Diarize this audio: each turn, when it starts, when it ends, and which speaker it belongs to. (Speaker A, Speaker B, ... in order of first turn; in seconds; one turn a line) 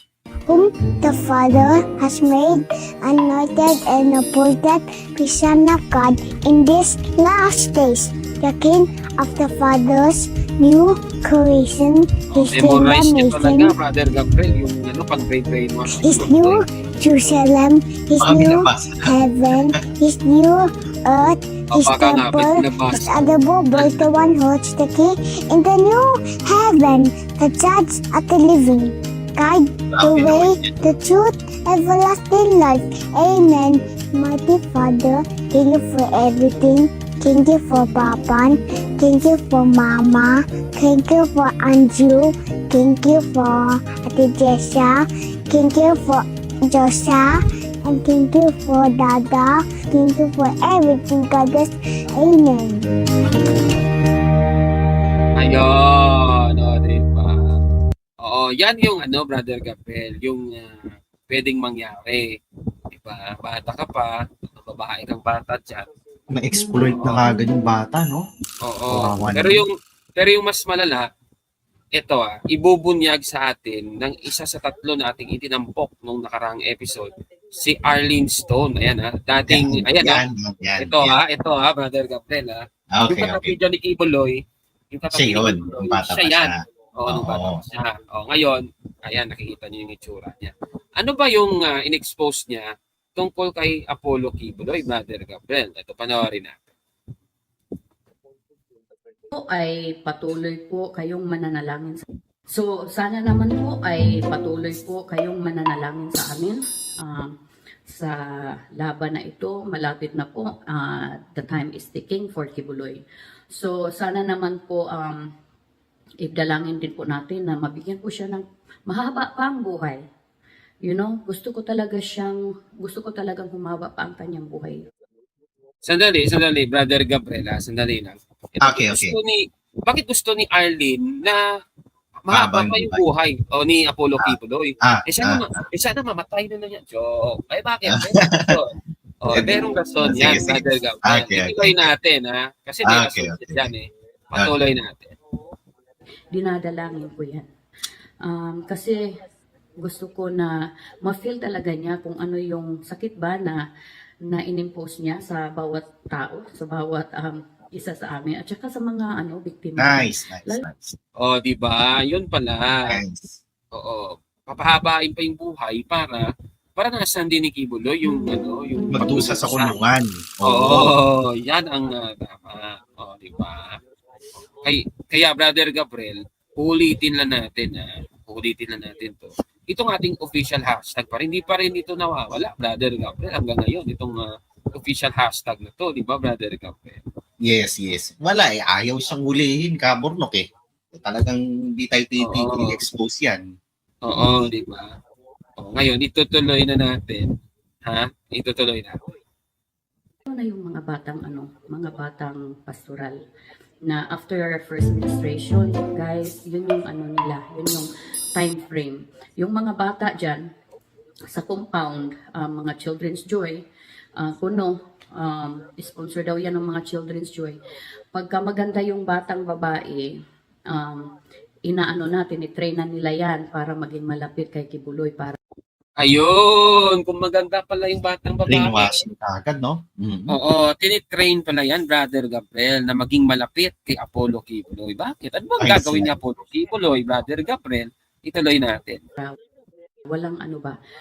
Speaker A: 0.5-13.8
Speaker B: 12.4-16.6
Speaker A: 15.9-52.9
Speaker C: 18.2-19.2
Speaker B: 18.3-18.6
Speaker B: 21.8-24.1
Speaker C: 30.0-30.7
Speaker B: 55.4-57.4
Speaker B: 58.2-60.7
Speaker B: 61.3-62.3
Speaker B: 62.9-65.9
Speaker C: 66.3-68.2
Speaker B: 66.8-67.2
Speaker B: 68.7-71.1
Speaker C: 68.9-69.7
Speaker B: 72.0-80.2
Speaker C: 79.5-81.2
Speaker B: 80.8-84.4
Speaker C: 82.9-83.6
Speaker B: 84.9-96.6
Speaker C: 85.1-87.6
Speaker D: 99.3-107.3
Speaker D: 107.9-108.2
Speaker D: 108.8-115.3
Speaker D: 116.2-120.0
Speaker D: 120.8-124.8
Speaker B: 125.9-131.4
Speaker C: 128.6-129.2
Speaker B: 132.3-145.2
Speaker C: 132.3-133.0
Speaker C: 134.2-135.5
Speaker C: 137.9-138.6
Speaker C: 139.3-141.9
Speaker C: 142.8-143.7
Speaker D: 146.3-147.5
Speaker D: 148.2-149.0
Speaker D: 149.8-153.6
Speaker D: 154.3-160.6
Speaker C: 159.8-161.0
Speaker B: 161.2-163.0
Speaker C: 162.9-163.4
Speaker B: 163.8-169.8
Speaker C: 168.9-170.9
Speaker B: 170.4-173.8
Speaker B: 174.6-184.2
Speaker B: 184.8-187.0
Speaker C: 187.5-193.4
Speaker B: 192.2-192.8
Speaker B: 194.1-194.9
Speaker B: 195.6-197.2
Speaker B: 197.9-199.0
Speaker D: 200.3-203.2
Speaker D: 203.9-210.5
Speaker D: 211.3-213.6
Speaker D: 214.2-217.6
Speaker D: 218.1-220.1
Speaker D: 220.7-221.1
Speaker D: 221.7-225.4
Speaker B: 226.0-228.9
Speaker C: 228.5-230.3
Speaker B: 230.3-239.0
Speaker C: 235.6-236.2
Speaker D: 240.1-240.8